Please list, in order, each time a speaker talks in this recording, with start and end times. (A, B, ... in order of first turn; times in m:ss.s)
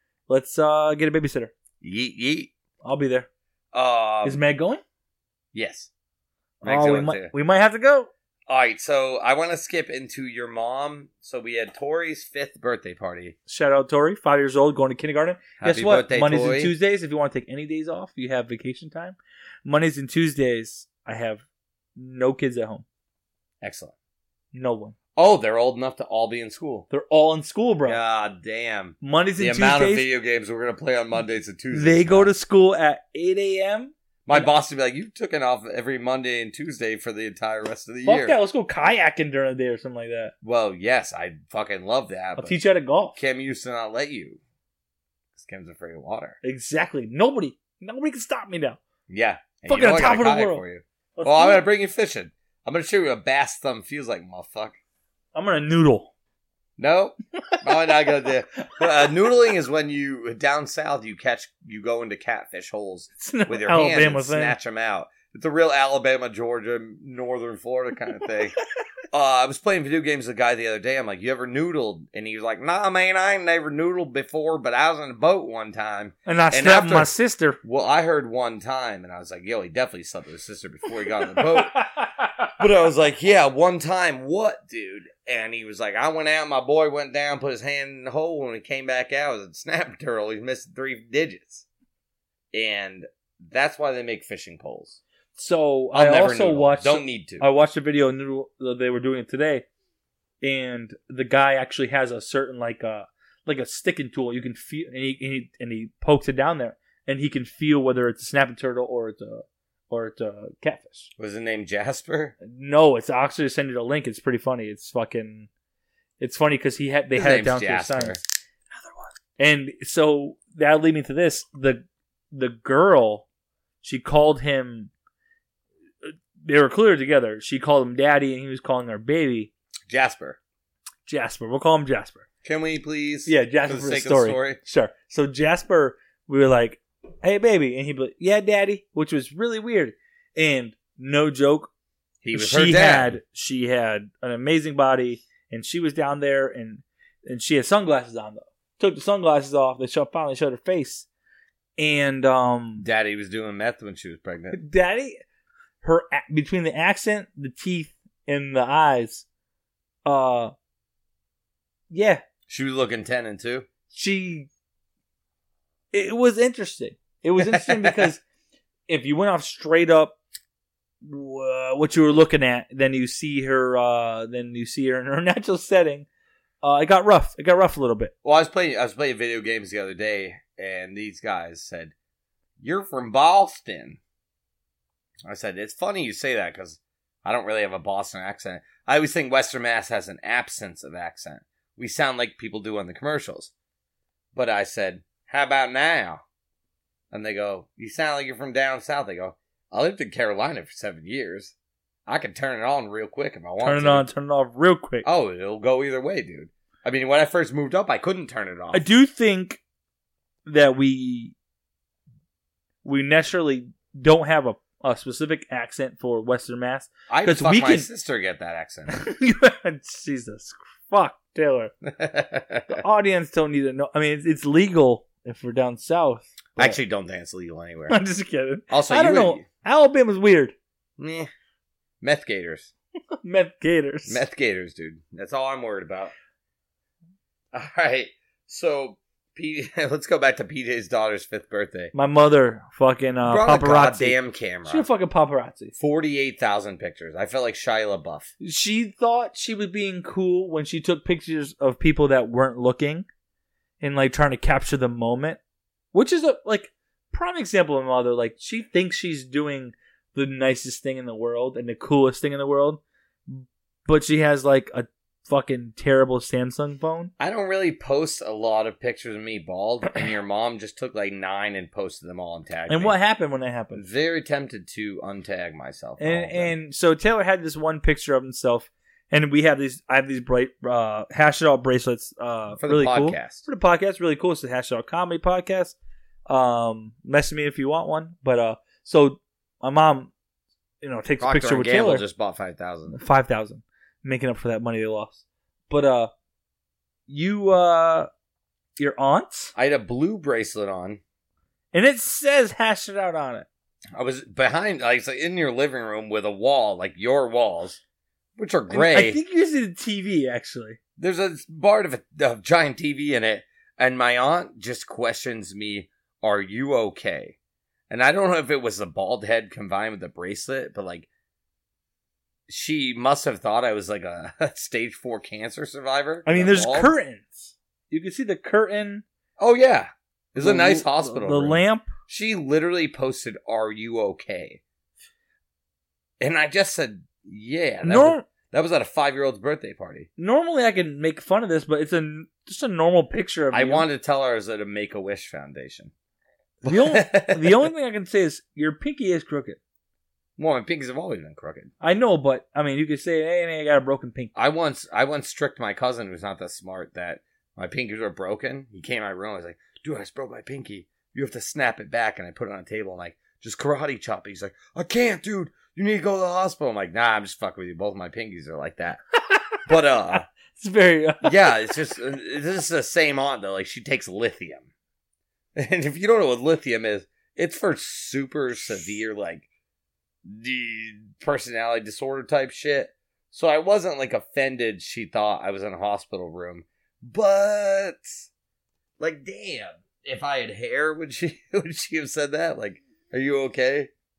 0:00.3-0:01.5 A
0:01.8-0:02.5 B
0:02.8-0:03.3 A
0:03.7-0:04.4 B
0:04.2-0:04.8 A
0:05.5-0:05.9 B
0:06.6-0:08.1 A
0:06.6-0:07.3 B
0:08.5-0:13.4 B
0:13.5-0:21.4 A
0:15.6-0:16.7 B
0:22.0-0:22.8 A
0:23.6-0:23.9 B
0:24.5-0:25.0 A
0:25.1-0:26.9 B
0:26.9-0:28.0 A
0:27.8-0:32.3 B
0:29.0-0:30.1 A
0:31.7-0:34.5 A
0:34.2-0:38.4 B
0:38.0-0:40.3 A
0:40.4-0:42.6 B
0:42.4-0:43.2 A
0:43.1-0:44.4 B
0:45.4-0:46.4 B
0:46.4-0:48.8 A
0:49.1-0:54.8 B
0:49.7-0:50.6 A
0:51.2-0:51.6 A
0:55.3-0:56.1 A
0:56.8-1:08.6 B
1:03.2-1:04.6 A
1:09.1-1:21.7 B
1:16.2-1:17.6 A
1:21.3-1:22.5 A
1:22.6-1:31.6 B
1:32.5-1:35.0 B
1:35.4-1:39.6 A
1:35.9-1:37.4 B
1:40.4-1:51.1 A
1:51.2-1:52.3 B
1:52.4-1:55.5 A
1:56.2-1:58.2 A
1:57.1-1:58.2 B
1:59.4-2:03.2 A
2:03.8-2:04.9 A
2:06.0-2:09.5 A
2:09.9-2:10.4 B
2:11.0-2:12.2 A
2:12.4-2:14.6 B
2:13.2-2:21.7 A
2:22.2-2:23.2 B
2:22.3-2:31.1 A
2:31.8-2:32.8 A
2:32.8-2:34.6 B
2:34.5-2:35.2 A
2:35.8-2:39.2 A
2:40.0-2:40.5 A
2:41.9-2:42.2 A
2:42.5-2:43.7 B
2:43.9-2:44.5 A
2:45.9-2:48.2 A
2:47.4-2:48.1 B
2:48.9-2:50.2 A
2:51.0-2:56.1 A
2:56.6-2:58.1 A
2:58.2-3:01.9 B
3:02.6-3:04.0 B
3:05.2-3:13.5 B
3:14.3-3:16.2 B
3:17.1-3:21.5 B
3:22.0-3:24.1 B
3:23.6-3:25.0 A
3:25.0-3:28.9 B
3:28.7-3:29.6 A
3:30.4-3:31.3 A
3:32.8-3:37.9 A
3:37.1-3:38.9 B
3:38.9-3:41.7 A
3:41.8-3:42.8 B
3:42.7-3:46.8 A
3:46.6-3:48.0 B
3:47.9-3:50.5 A
3:48.7-3:49.4 B
3:51.0-3:51.3 B
3:52.0-3:52.7 B
3:53.2-3:54.2 A
3:54.1-3:56.1 B
3:57.5-4:01.9 B
4:01.9-4:05.7 A
4:03.2-4:04.9 B
4:05.8-4:08.3 B
4:08.4-4:13.1 A
4:13.8-4:15.4 A
4:15.9-4:27.1 A
4:27.2-4:33.0 B
4:32.7-4:33.8 A
4:33.7-4:36.5 B
4:36.0-4:45.8 A
4:42.6-4:43.4 B
4:46.3-4:50.1 A
4:50.8-4:52.0 A
4:51.2-4:53.0 B
4:52.9-4:56.1 A
4:57.1-4:58.1 A
4:58.8-4:59.5 A
4:59.5-5:01.0 B
5:01.7-5:03.5 A
5:03.9-5:07.8 B
5:08.4-5:09.2 B
5:08.7-5:10.8 A
5:11.0-5:17.4 B
5:17.9-5:21.1 B
5:22.5-5:26.9 B
5:26.2-5:29.0 A
5:29.4-5:34.6 B
5:30.4-5:31.9 A
5:36.2-5:40.1 B
5:37.8-5:38.2 A
5:40.2-5:43.8 A
5:43.5-5:45.9 B
5:46.6-5:47.7 B
5:46.6-5:49.6 A
5:50.4-5:51.7 B
5:51.8-5:54.3 A
5:54.3-6:09.0 B
6:09.6-6:10.2 B
6:10.6-6:11.6 A
6:11.2-6:14.7 B
6:15.6-6:19.5 B
6:20.2-6:28.3 B
6:29.0-6:33.9 B